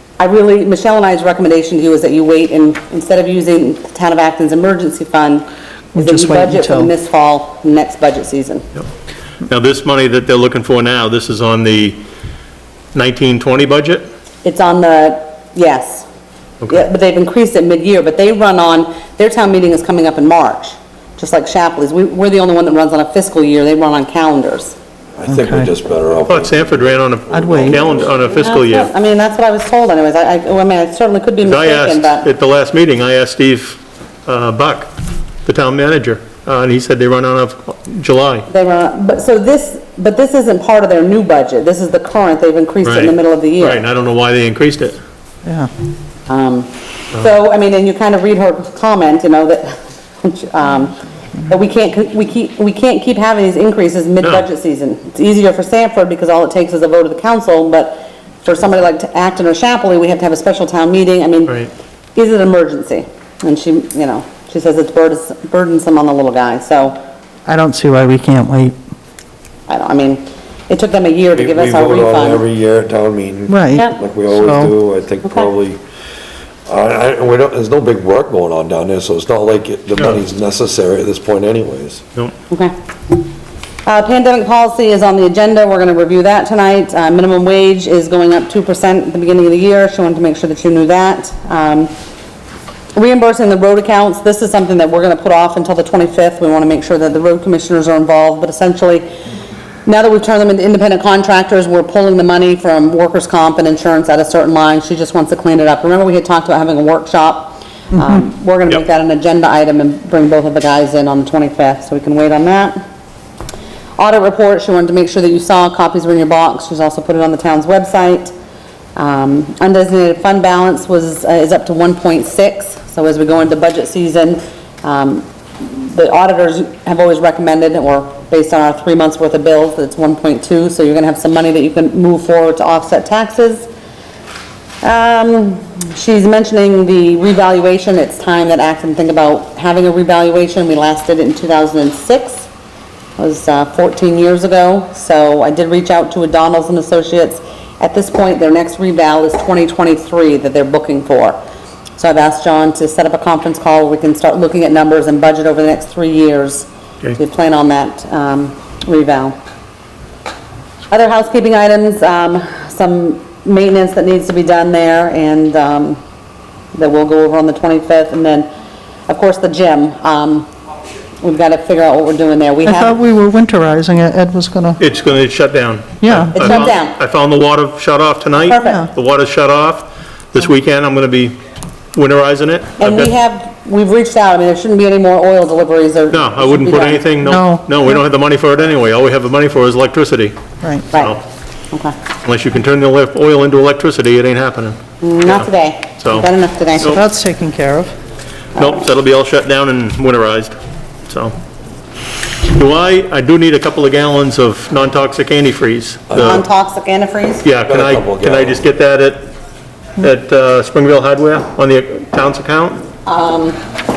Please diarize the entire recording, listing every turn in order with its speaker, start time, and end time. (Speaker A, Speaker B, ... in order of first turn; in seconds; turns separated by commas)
Speaker A: 0.2-5.4, Speaker B: 5.9-6.9, Speaker A: 6.0-8.6, Speaker C: 9.4-12.0, Speaker C: 12.9-14.1, Speaker A: 14.4-16.1, Speaker A: 16.7-24.8, Speaker D: 25.2-28.2, Speaker B: 25.3-25.7, Speaker C: 26.3-28.9, Speaker B: 27.3-27.8, Speaker A: 28.3-32.3, Speaker C: 31.4-34.9, Speaker C: 35.5-38.5, Speaker A: 38.5-43.8, Speaker C: 42.8-45.0, Speaker B: 45.4-45.7, Speaker A: 46.3-51.0, Speaker A: 51.5-61.6, Speaker A: 62.1-67.0, Speaker B: 67.5-68.8, Speaker A: 69.7-72.4, Speaker D: 71.3-75.8, Speaker B: 73.5-74.7, Speaker D: 76.7-82.0, Speaker A: 83.8-91.9, Speaker A: 92.9-99.0, Speaker A: 99.8-112.8, Speaker A: 114.0-118.3, Speaker A: 119.0-133.7, Speaker A: 134.8-142.5, Speaker A: 143.2-151.4, Speaker A: 152.0-159.3, Speaker A: 160.9-166.0, Speaker A: 166.7-168.5, Speaker A: 169.1-170.5, Speaker A: 171.2-173.0, Speaker B: 172.6-174.8, Speaker C: 174.8-181.4, Speaker B: 176.0-176.5, Speaker A: 176.3-177.0, Speaker A: 178.4-178.8, Speaker C: 181.9-183.1, Speaker A: 182.8-187.1, Speaker C: 186.1-190.3, Speaker B: 187.2-187.8, Speaker A: 190.9-191.2, Speaker C: 192.2-195.5, Speaker A: 195.0-197.0, Speaker C: 196.0-196.3, Speaker B: 196.8-197.9, Speaker C: 198.6-200.5, Speaker C: 201.1-201.3, Speaker C: 202.5-206.4, Speaker D: 206.1-206.4, Speaker A: 206.1-207.5, Speaker C: 207.4-209.3, Speaker D: 207.6-208.6, Speaker C: 210.0-212.8, Speaker A: 213.1-213.6